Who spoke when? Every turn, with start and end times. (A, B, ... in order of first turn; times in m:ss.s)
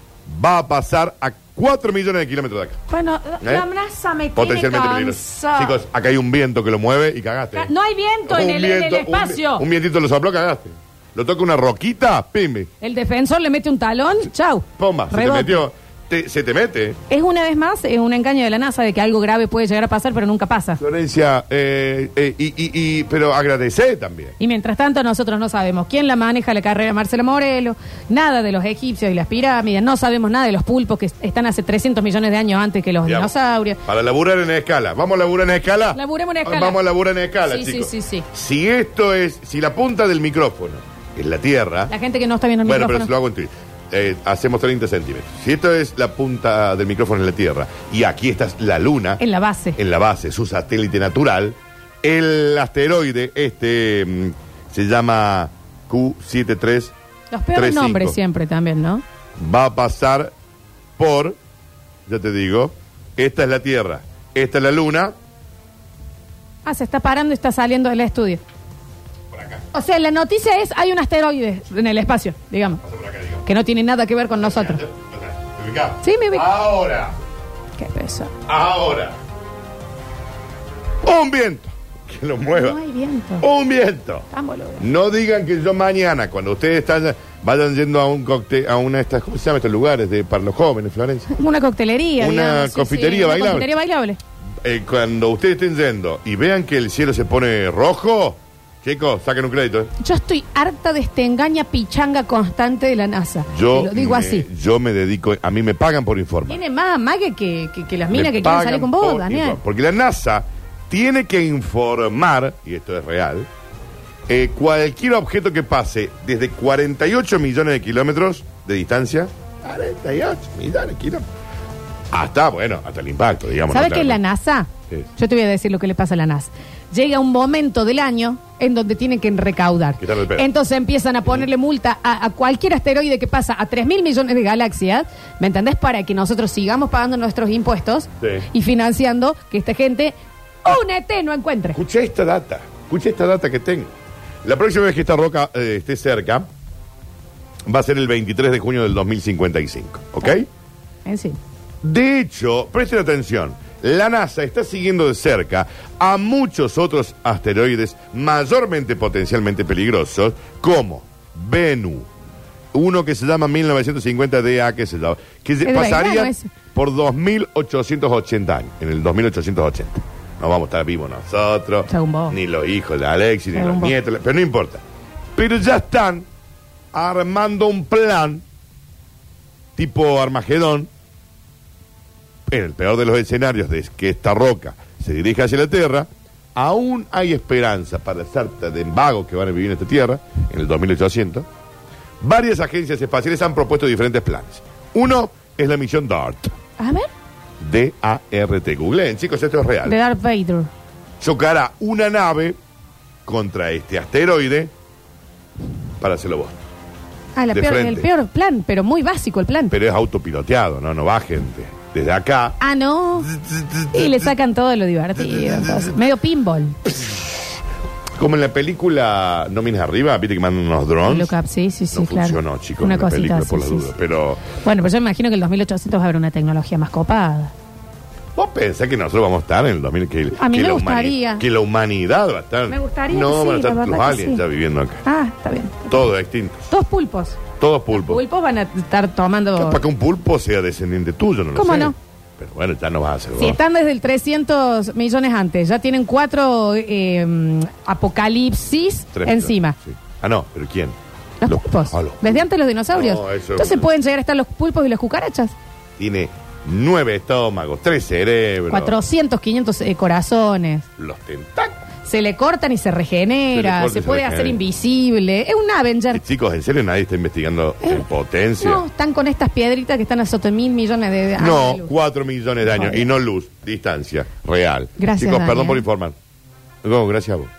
0:00.3-0:02.8 A
0:02.9-0:05.8 B
0:03.4-0:03.7 A
0:04.4-0:07.7 A
0:07.5-0:09.7 B
0:08.3-0:12.7 A
0:12.8-0:15.6 B
0:14.8-0:17.0 A
0:17.1-0:20.8 B
0:20.8-0:24.4 A
0:24.4-0:33.8 B
0:33.0-0:41.9 A
0:35.9-0:36.8 B
0:37.5-0:38.3 B
0:41.9-0:43.1 B
0:42.6-0:49.2 A
0:49.2-0:49.8 B
0:49.8-0:56.9 A
0:57.3-0:59.0 B
0:57.5-0:58.2 A
0:59.4-1:00.3 A
1:01.0-1:01.4 A
1:02.1-1:05.1 A
1:06.6-1:08.4 B
1:09.3-1:09.6 A
1:09.7-1:12.8 B
1:12.8-1:13.4 A
1:13.4-1:14.8 B
1:14.4-1:17.2 A
1:16.0-1:16.5 B
1:17.8-1:18.3 B
1:18.5-1:19.2 A
1:21.0-1:22.8 A
1:22.5-1:23.5 B
1:23.4-1:31.3 A
1:24.3-1:24.8 B
1:31.3-1:34.2 B
1:32.2-1:33.7 A
1:34.6-1:39.9 A
1:40.0-1:44.5 B
1:43.5-1:46.6 A
1:46.5-1:49.6 B
1:48.1-1:53.5 A
1:54.3-2:01.3 A
2:02.1-2:04.2 A
2:03.7-2:21.8 B
2:10.0-2:10.5 A
2:18.2-2:18.5 A
2:21.8-2:23.9 A
2:24.4-2:26.5 A
2:27.7-2:30.5 A
2:31.0-2:31.4 B
2:31.8-2:42.1 A
2:42.7-2:54.8 A
2:45.6-2:46.5 B
2:51.9-2:52.4 B
2:53.5-2:54.0 B
2:55.4-2:56.3 A
2:56.9-2:58.4 A
2:59.8-3:00.9 A
3:02.5-3:11.5 A
3:12.2-3:16.6 A
3:16.8-3:17.1 B
3:17.6-3:20.0 A
3:19.8-3:20.7 B
3:21.2-3:22.6 A
3:23.3-3:24.7 A
3:26.0-3:26.6 A
3:27.4-3:29.8 B
3:27.5-3:28.1 A
3:29.7-3:32.6 A
3:32.6-3:33.3 B
3:33.3-3:34.3 A
3:33.9-3:36.8 B
3:35.3-3:35.9 A
3:37.0-3:37.2 A
3:38.2-3:41.3 A
3:41.0-3:43.9 B
3:41.9-3:44.4 A
3:44.6-3:47.5 B
3:48.4-3:55.0 A
3:50.3-3:51.4 B
3:52.7-3:54.4 B
3:55.1-3:56.1 B
3:55.9-3:56.7 A
3:56.7-3:57.4 B
3:57.6-3:58.2 A
3:57.9-3:59.8 B
3:59.6-4:03.6 A
4:01.6-4:02.0 B
4:03.4-4:09.8 B
4:09.1-4:13.9 A
4:11.4-4:15.6 B
4:16.0-4:19.0 A
4:18.7-4:20.9 B
4:21.0-4:21.8 A
4:22.0-4:26.2 B
4:23.5-4:24.6 A
4:26.1-4:28.8 A
4:28.6-4:31.9 B
4:31.4-4:36.2 A
4:32.7-4:33.0 B
4:35.0-4:35.8 B
4:36.8-4:37.5 A